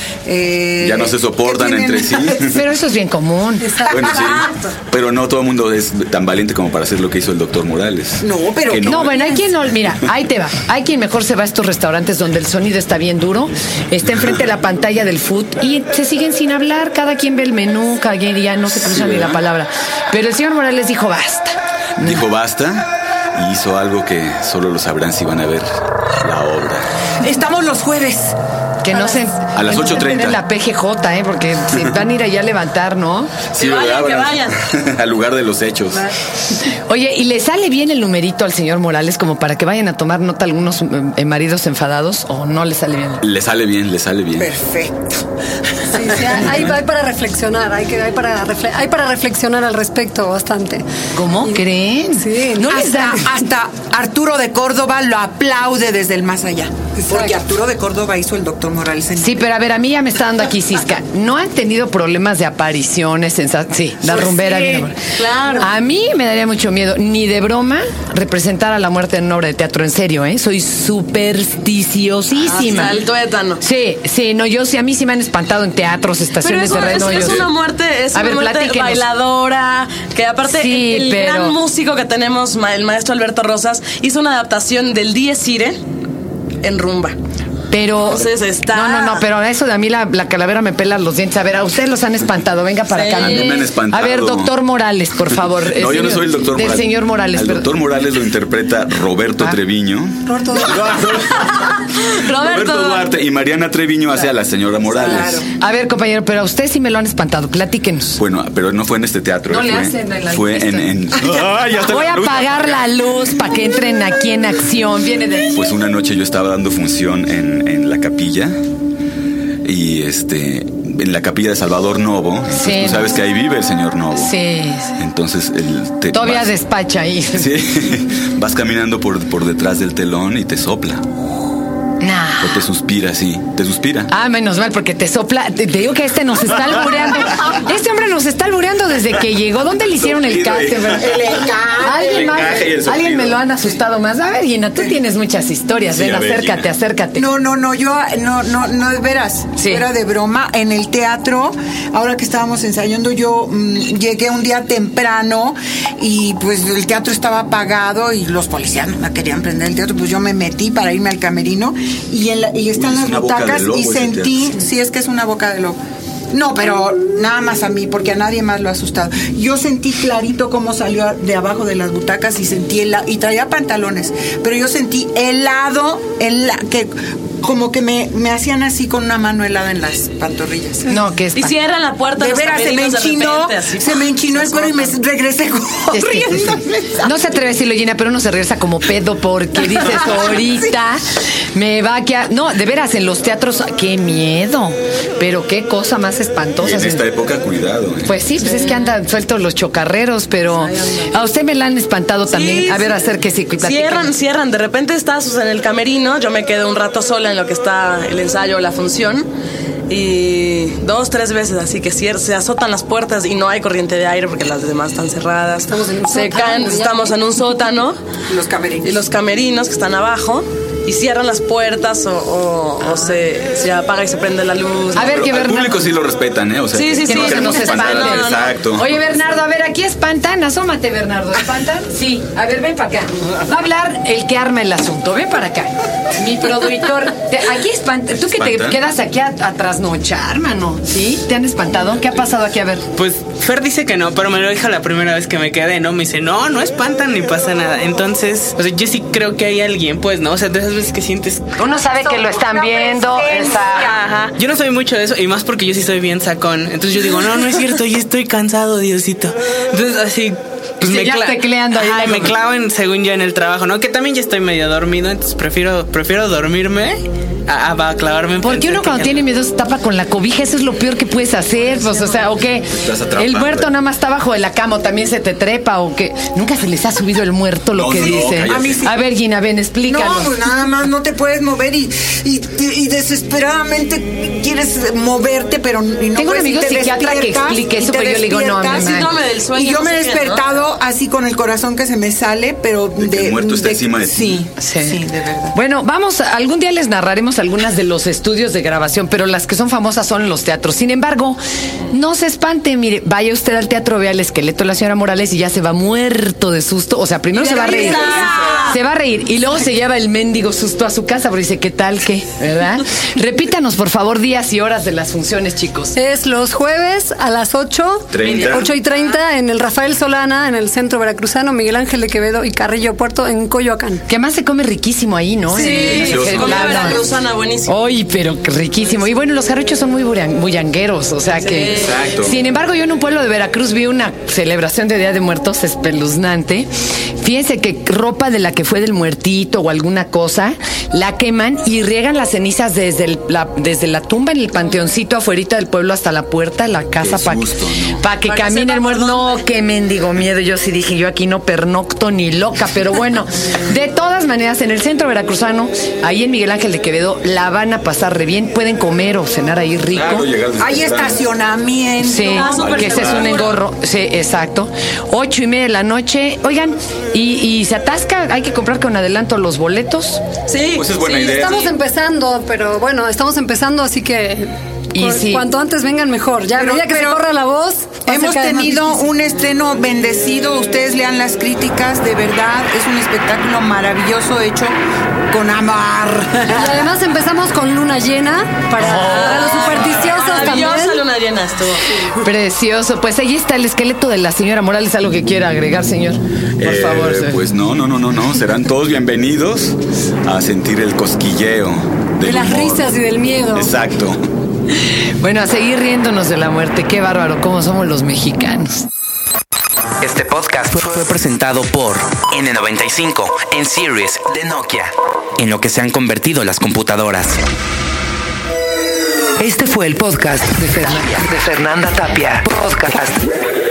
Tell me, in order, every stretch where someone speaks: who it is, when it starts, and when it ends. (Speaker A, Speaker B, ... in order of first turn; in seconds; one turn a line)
Speaker A: 0.2-2.4
Speaker B: 0.8-2.6
Speaker C: 2.5-3.9
Speaker B: 3.9-9.3
Speaker A: 8.2-9.0
Speaker C: 8.8-22.2
Speaker B: 22.0-26.8
Speaker A: 27.2-28.4
Speaker C: 28.8-33.4
Speaker B: 29.5-30.4
Speaker D: 33.5-34.6
Speaker B: 33.5-36.0
Speaker C: 36.7-43.2
Speaker B: 43.2-44.5
Speaker A: 44.4-44.9
Speaker E: 45.9-50.8
Speaker C: 51.1-53.2
Speaker E: 52.1-53.0
Speaker A: 52.6-59.4
Speaker E: 57.1-57.4
Speaker C: 59.2-65.0
Speaker D: 64.4-65.7
Speaker C: 65.6-73.0
Speaker D: 72.4-73.6
Speaker C: 73.6-77.5
Speaker D: 76.4-85.8
Speaker B: 77.1-77.4
Speaker C: 78.1-79.1
Speaker C: 80.5-81.6
Speaker D: 86.6-87.2
Speaker C: 87.7-97.7
Speaker D: 88.0-89.2
Speaker D: 92.9-93.5
Speaker B: 93.2-94.5
Speaker B: 95.4-101.5
Speaker E: 100.3-100.8
Speaker D: 101.2-103.1
Speaker B: 102.3-105.4
Speaker A: 104.8-105.5
Speaker C: 105.6-108.2
Speaker B: 108.2-112.9
Speaker C: 109.5-110.9
Speaker C: 111.8-115.7
Speaker B: 115.5-118.6
Speaker B: 119.6-124.3
Speaker C: 122.5-123.2
Speaker C: 124.1-125.0
Speaker B: 125.0-126.5
Speaker C: 126.1-127.5
Speaker B: 127.3-131.0
Speaker C: 132.0-132.6
Speaker B: 132.4-134.1
Speaker C: 134.1-141.2
Speaker B: 140.0-141.2
Speaker A: 140.9-142.4
Speaker C: 141.8-147.3
Speaker B: 142.0-143.4
Speaker B: 145.9-146.7
Speaker A: 147.2-165.8
Speaker C: 149.6-149.8
Speaker B: 162.7-164.5
Speaker A: 166.3-176.9
Speaker A: 177.4-180.9
Speaker C: 180.9-181.6
Speaker D: 181.3-184.9
Speaker A: 182.2-187.1
Speaker C: 185.9-186.5
Speaker C: 187.0-191.0
Speaker C: 191.5-197.1
Speaker B: 196.6-198.1
Speaker C: 198.0-204.1
Speaker D: 200.6-201.0
Speaker D: 202.3-203.0
Speaker D: 203.6-209.3
Speaker D: 209.9-217.9
Speaker E: 215.7-217.2
Speaker A: 218.3-219.0
Speaker D: 218.8-225.2
Speaker C: 224.9-225.9
Speaker B: 225.0-228.9
Speaker D: 226.7-228.5
Speaker C: 227.1-242.8
Speaker B: 238.2-238.8
Speaker F: 243.0-251.4
Speaker C: 251.6-253.9
Speaker A: 252.3-254.1
Speaker F: 253.9-269.2
Speaker C: 260.8-262.4
Speaker C: 268.4-280.3
Speaker B: 272.8-273.7
Speaker B: 277.7-278.9
Speaker A: 278.0-278.9
Speaker A: 279.9-295.6
Speaker C: 286.1-289.1
Speaker D: 288.7-290.4
Speaker B: 293.0-294.4
Speaker C: 294.6-295.0
Speaker C: 295.5-301.4
Speaker C: 301.9-315.9
Speaker A: 307.3-308.8
Speaker D: 307.9-308.5
Speaker E: 315.9-324.0
Speaker B: 318.1-318.7
Speaker D: 318.2-318.8
Speaker C: 324.1-327.0
Speaker D: 325.5-327.7
Speaker B: 325.9-326.7
Speaker C: 327.6-347.5
Speaker D: 331.4-331.9
Speaker B: 331.8-332.4
Speaker B: 347.0-348.0
Speaker C: 348.0-360.3
Speaker D: 348.2-349.4
Speaker B: 359.9-361.2
Speaker A: 360.6-362.7
Speaker C: 362.0-370.2
Speaker D: 362.3-363.6
Speaker B: 362.5-363.4
Speaker D: 370.5-370.9
Speaker B: 370.7-371.7
Speaker E: 370.9-379.1
Speaker C: 374.9-375.5
Speaker A: 376.5-377.2
Speaker A: 378.0-384.8
Speaker A: 385.3-386.9
Speaker E: 386.5-391.0
Speaker C: 388.8-389.7
Speaker D: 388.8-391.9
Speaker C: 392.2-397.4
Speaker B: 396.6-402.9
Speaker E: 402.2-403.7
Speaker B: 403.5-404.2
Speaker C: 405.2-408.9
Speaker G: 410.0-417.4
Speaker C: 419.6-420.2